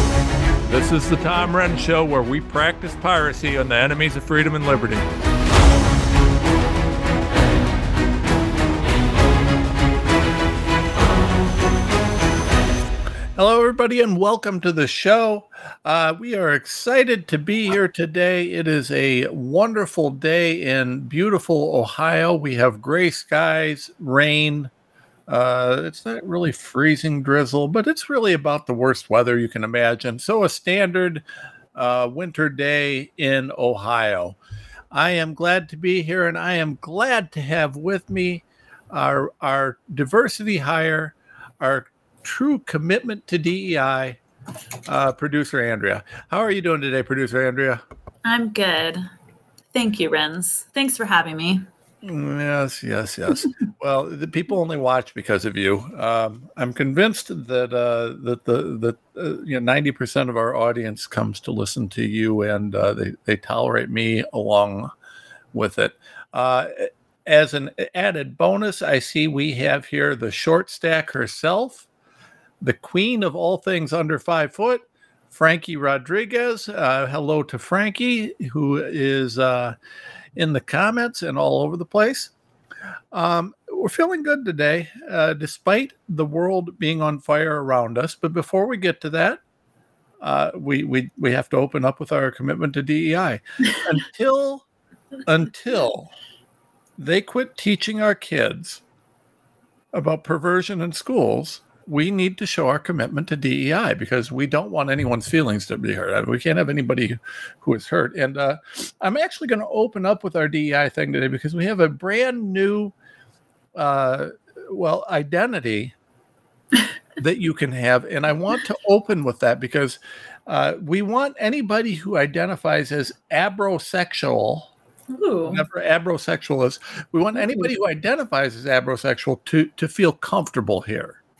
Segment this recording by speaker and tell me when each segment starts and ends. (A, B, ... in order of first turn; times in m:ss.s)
0:00.6-0:05.1 A
0:13.4-0:24.7 A
0:25.3-0:31.2 A
0:31.7-0:34.4 A
0:34.9-0:44.2 A
0:44.9-0:47.8 A
0:48.2-0:49.0 B
0:49.7-0:51.6 B
0:52.0-1:04.9 A
1:05.5-1:11.8 A
1:12.6-1:19.8 A
1:20.4-1:22.3 A
1:23.1-1:29.4 A
1:30.2-1:34.6 A
1:35.2-1:36.1 A
1:37.0-1:38.8 A
1:39.9-1:52.9 A
1:53.7-1:55.9 A
1:57.2-2:04.7 A
2:05.1-2:05.6 B
2:05.5-2:11.2 A
2:07.3-2:07.7 B